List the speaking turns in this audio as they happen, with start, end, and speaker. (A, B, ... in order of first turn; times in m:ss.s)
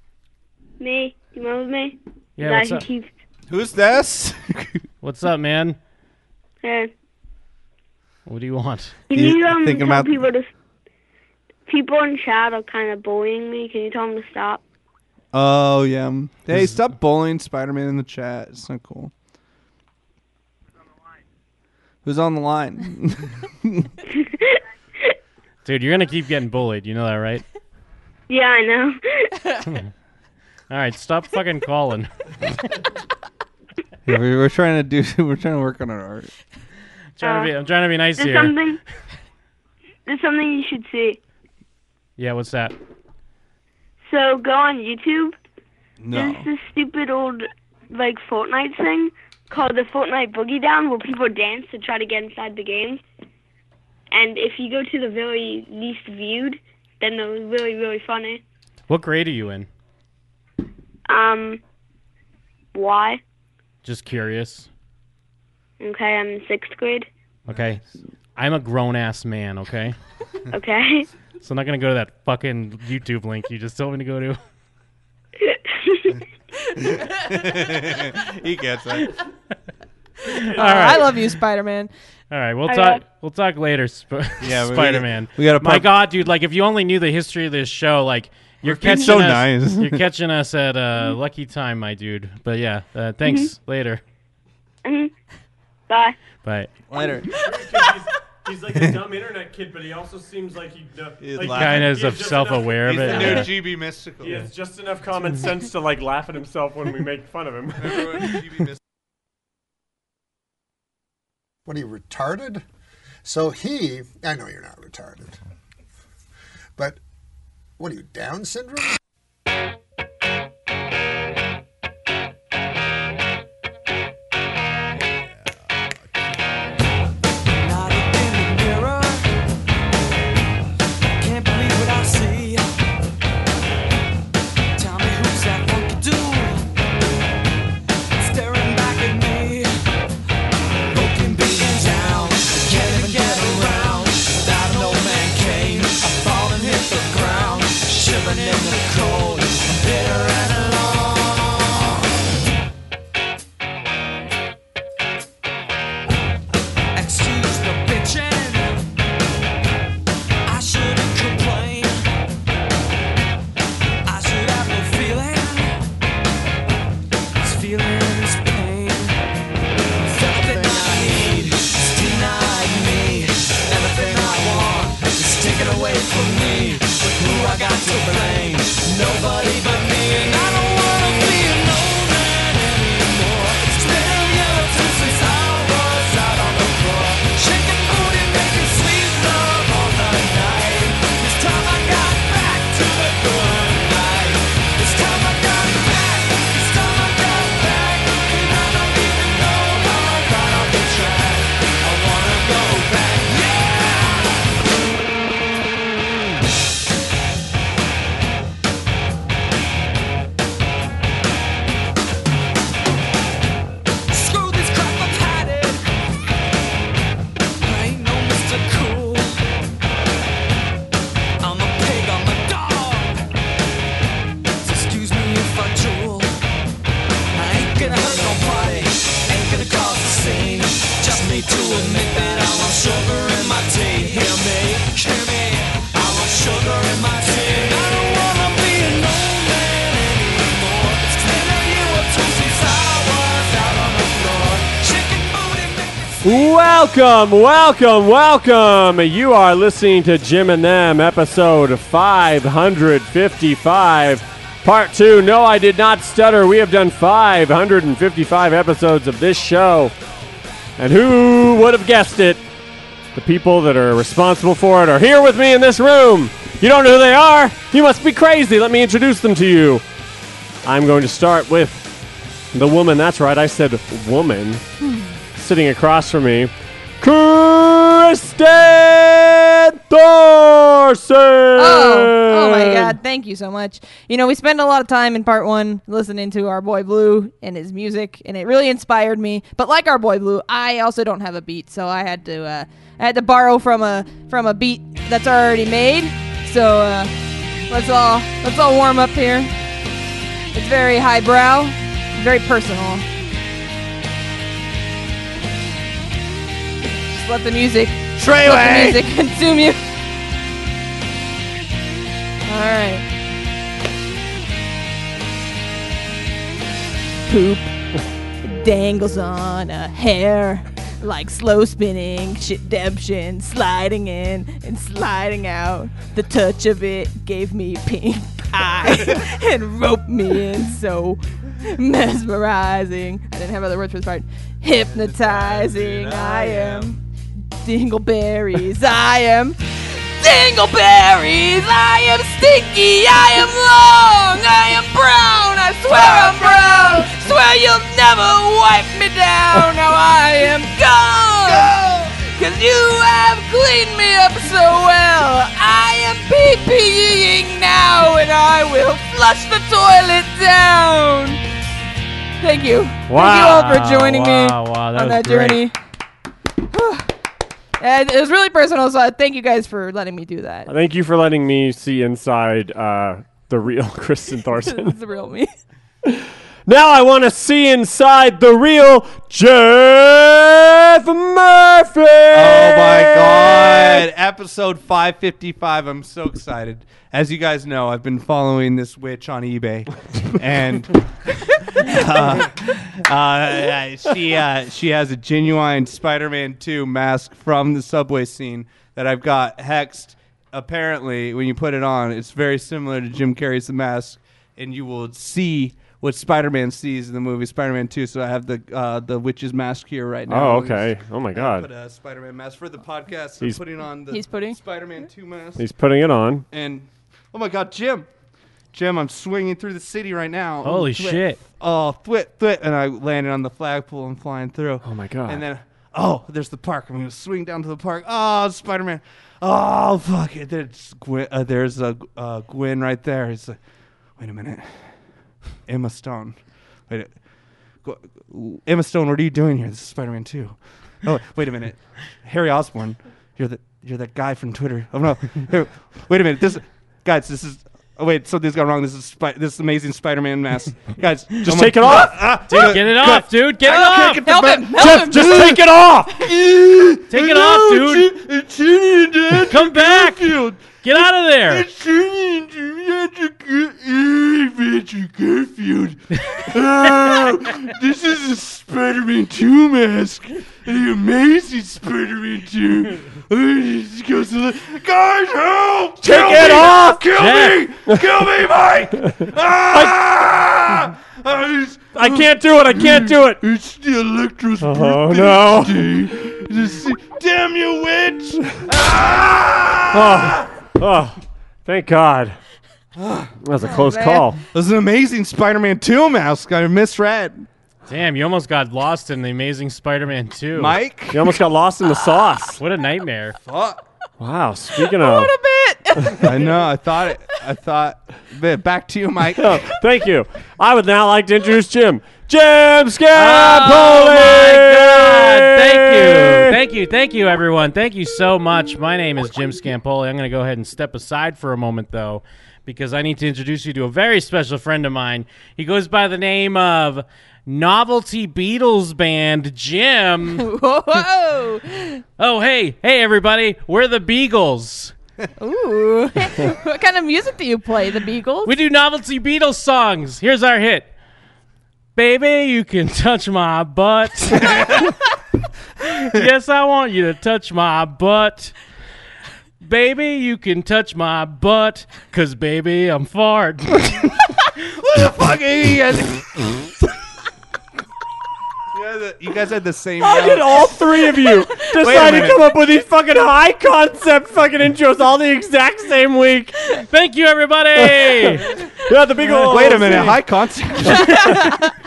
0:00.8-0:03.1 A
0:02.4-0:02.9 B
0:03.5-0:04.8 C
0:05.0-0:05.8 B
0:06.6-0:06.9 A
0:08.3-0:09.0 B
0:09.1-0:10.5 A
0:09.1-0:10.2 C
0:11.7-0:14.6 A
0:15.3-0:19.1 C
0:16.5-0:16.8 B
0:22.0-0:23.9 C
0:24.1-0:25.1 A
0:25.6-0:27.4 B
0:28.3-0:29.0 A
0:29.7-0:29.9 B
0:30.7-0:32.1 B
0:34.1-0:36.3 C
0:37.2-0:38.6 B
0:37.2-0:37.5 A
0:38.2-0:38.8 A
0:40.1-0:41.2 A
0:42.2-0:42.8 B
0:44.0-0:45.4 A
0:46.0-0:46.5 C
0:46.1-0:53.0 A
0:54.1-0:58.4 A
0:58.9-0:59.7 B
1:01.1-1:01.6 A
1:02.7-1:03.2 A
1:03.8-1:04.7 B
1:05.8-1:07.1 A
1:07.5-1:07.8 B
1:07.5-1:07.9 C
1:08.4-1:10.0 B
1:10.5-1:11.1 A
1:11.4-1:14.4 B
1:15.4-1:16.2 A
1:16.8-1:19.1 C
1:20.3-1:21.1 B
1:20.5-1:21.9 D
1:22.3-1:34.0 B
1:22.7-1:23.0 A
1:24.4-1:25.9 C
1:28.6-1:30.0 C
1:33.2-1:33.5 A
1:34.8-1:35.1 A
1:35.9-1:36.2 A
1:36.4-1:36.7 B
1:36.9-1:37.4 C
1:37.3-1:43.5 E
1:38.7-1:39.0 C
1:41.2-1:41.9 C
1:41.5-1:43.5 B
1:42.8-1:44.5 C
1:44.2-1:48.2 E
1:47.8-1:48.8 C
1:51.7-1:52.6 F
1:53.2-1:55.4 F
1:57.8-1:59.0 F
2:05.2-2:05.5 C
2:07.5-2:09.3 G
2:11.2-2:12.7 G
2:14.8-2:16.7 G
2:18.2-2:19.7 G
2:20.9-2:32.1 G
2:37.0-2:38.8 G
2:40.5-2:42.0 G
2:44.1-2:45.7 G
2:47.4-2:49.2 G
2:50.0-3:24.5 G
3:34.1-3:35.8 G
3:37.6-3:39.4 G
3:41.4-3:43.2 G
3:44.6-3:46.3 G
3:47.4-4:06.5 G
4:06.2-4:19.9 E
4:20.8-4:22.4 E
4:23.1-4:29.8 E
4:30.6-4:32.0 E
4:32.5-4:34.6 E
4:34.8-4:35.2 D
4:35.4-4:43.0 E
4:41.6-4:57.1 D
4:57.7-4:59.5 D
5:00.5-5:03.0 D
5:07.1-5:09.8 D
5:08.2-5:09.0 C
5:12.5-5:13.0 D
5:17.3-5:17.7 D
5:18.4-5:37.0 D
5:34.8-5:37.0 C
5:37.6-6:01.4 D
5:45.9-5:47.1 C
5:51.5-5:51.8 C
6:02.4-6:05.8 D
6:03.1-6:03.6 E
6:03.2-6:05.6 B
6:06.7-6:07.1 D
6:07.8-6:10.7 D
6:10.7-6:15.0 E
6:14.6-6:15.5 D
6:16.0-6:23.4 E
6:22.3-6:30.9 C
6:31.8-6:55.6 C
6:50.3-6:51.7 E
6:54.1-6:54.6 D
6:55.6-6:56.4 E
6:56.5-6:58.1 C
6:58.7-7:13.6 C
7:00.6-7:01.4 B
7:04.8-7:05.4 E
7:14.2-7:15.0 C
7:15.6-7:17.2 C
7:17.8-8:10.4 C
7:31.4-7:32.3 E
7:32.5-7:34.3 B
7:33.7-7:35.5 D
7:34.7-7:36.3 E
7:37.1-7:38.1 B
7:39.5-7:40.3 B
7:40.8-7:41.7 B
7:56.0-7:58.0 E
7:57.2-7:57.6 B
7:59.7-8:00.0 E
8:02.0-8:03.4 E
8:04.6-8:06.0 E
8:09.9-8:12.4 E
8:13.0-8:13.3 C
8:13.4-8:14.4 E
8:13.6-8:14.3 D
8:14.5-8:17.5 C
8:17.9-8:20.8 B
8:20.6-8:21.3 C
8:21.1-8:22.6 E
8:22.6-8:23.4 B
8:23.4-8:23.8 C
8:24.2-8:25.3 E
8:24.8-8:26.6 D
8:26.2-8:29.6 C
8:29.4-8:36.6 E
8:33.2-8:50.5 B
8:50.4-8:52.0 D
8:52.2-8:54.9 B
8:55.4-8:58.5 D
8:58.4-9:00.9 B
9:02.0-9:04.9 B
9:04.4-9:04.9 C
9:06.0-9:08.5 B
9:09.6-9:14.0 B
9:14.8-9:16.2 C
9:18.7-9:20.8 C
9:20.0-9:26.6 E
9:21.7-9:22.5 C
9:26.9-9:28.6 B
9:27.8-9:30.2 E
9:29.2-9:31.4 C
9:31.1-9:31.4 E
9:31.1-9:31.5 D